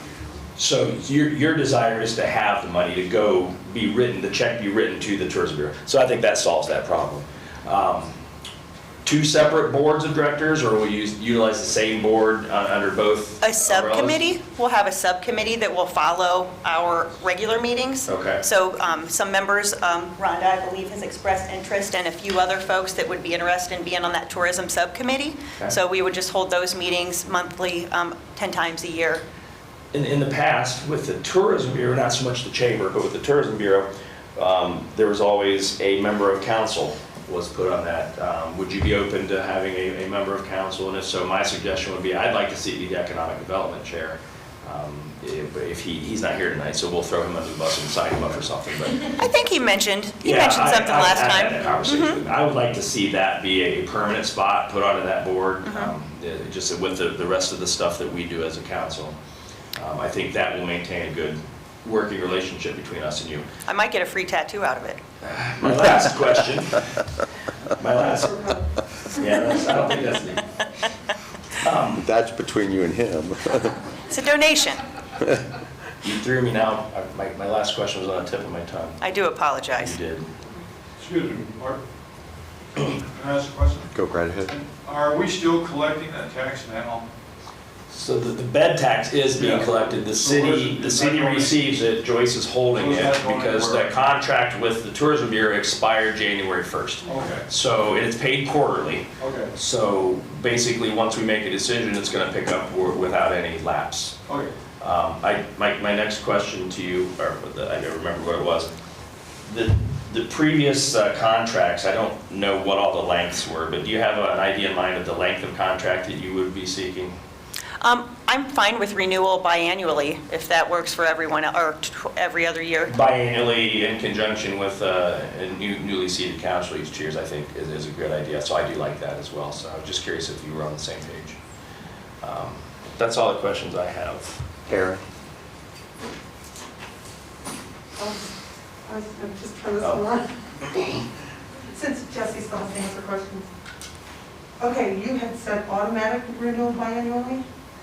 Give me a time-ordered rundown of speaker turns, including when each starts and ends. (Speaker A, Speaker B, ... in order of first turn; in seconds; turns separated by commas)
Speaker A: 0.6-8.1, Speaker A: 9.1-14.2, Speaker B: 13.4-29.2, Speaker A: 18.1-18.4, Speaker A: 29.9-49.1, Speaker B: 49.1-52.2, Speaker A: 50.2-59.2, Speaker B: 55.6-55.9, Speaker A: 59.8-63.5, Speaker B: 63.7-65.0, Speaker A: 65.2-66.8, Speaker A: 67.8-68.5, Speaker A: 69.1-70.4, Speaker A: 71.6-72.0, Speaker C: 72.0-73.8, Speaker B: 74.1-74.8, Speaker A: 76.0-79.0, Speaker B: 79.0-80.0, Speaker A: 79.8-80.3, Speaker D: 81.0-81.8, Speaker D: 83.1-83.8, Speaker C: 83.9-84.6, Speaker D: 84.5-87.1, Speaker A: 87.9-104.2, Speaker D: 89.4-91.5, Speaker D: 92.8-93.9, Speaker D: 97.1-97.5, Speaker D: 99.2-99.5, Speaker D: 104.3-104.5, Speaker A: 104.8-108.7, Speaker A: 109.5-117.2, Speaker B: 117.8-122.9, Speaker A: 122.9-131.4, Speaker A: 132.2-134.4, Speaker C: 134.7-135.0, Speaker E: 138.0-138.3, Speaker E: 138.9-141.0, Speaker E: 141.7-143.5, Speaker E: 144.6-147.4